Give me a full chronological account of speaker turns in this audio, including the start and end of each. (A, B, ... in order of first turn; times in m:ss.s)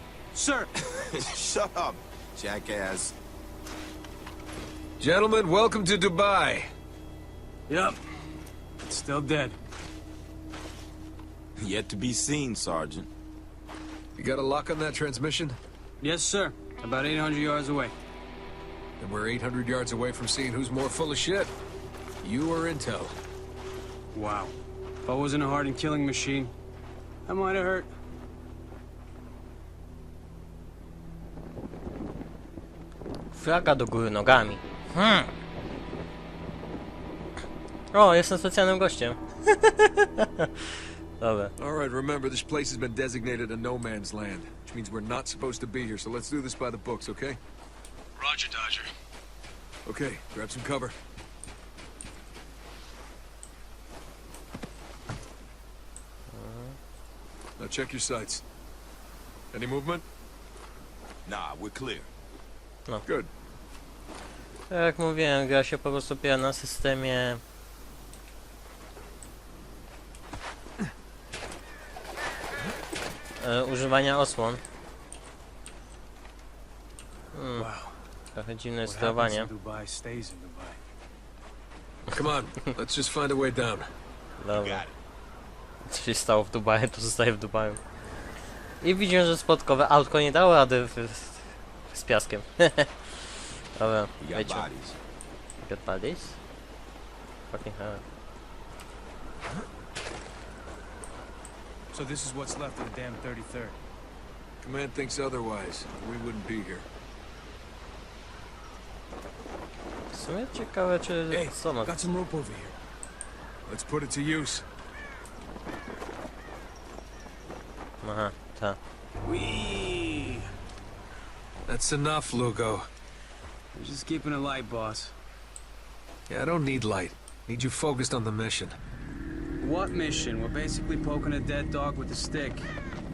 0:00.3-0:00.7 A
0:00.9-0:03.1 B
0:05.0-0:06.7 C
0:07.7-0:08.0 A
0:08.8-0:09.6 A
0:11.6-0:13.1 B
0:14.2-0:15.6 C
0:16.0-0:18.0 A
0:19.0-0:21.5 C
0:22.2-0:23.2 C
0:24.1-0:24.6 A
0:25.1-0:26.5 A
0:27.3-0:27.9 A
0:33.3-0:35.3 D
0:37.9-0:41.5 D
0:41.6-0:47.4 C
0:48.2-0:48.9 A
0:49.9-0:51.0 C
0:56.3-0:56.8 D
0:57.6-0:58.4 C
0:59.5-1:00.0 C
1:01.2-1:02.1 B
1:04.7-1:07.4 D
1:13.4-1:14.6 D
1:17.3-1:17.7 D
1:17.6-1:18.0 A
1:18.3-1:19.5 D
1:18.9-1:20.8 A
1:22.1-1:23.9 C
1:24.4-1:24.9 D
1:24.5-1:25.0 B
1:25.8-1:27.8 D
1:28.8-1:34.7 D
1:34.2-1:35.0 B
1:35.6-1:36.4 D
1:37.5-1:38.0 D
1:41.9-1:43.8 A
1:44.6-1:46.9 C
1:50.1-1:52.1 D
1:51.3-1:52.8 A
1:53.7-1:54.7 C
1:58.0-1:58.8 D
1:59.2-2:00.5 A
2:01.7-2:02.9 C
2:03.7-2:05.2 A
2:06.3-2:08.8 C
2:09.6-2:12.7 A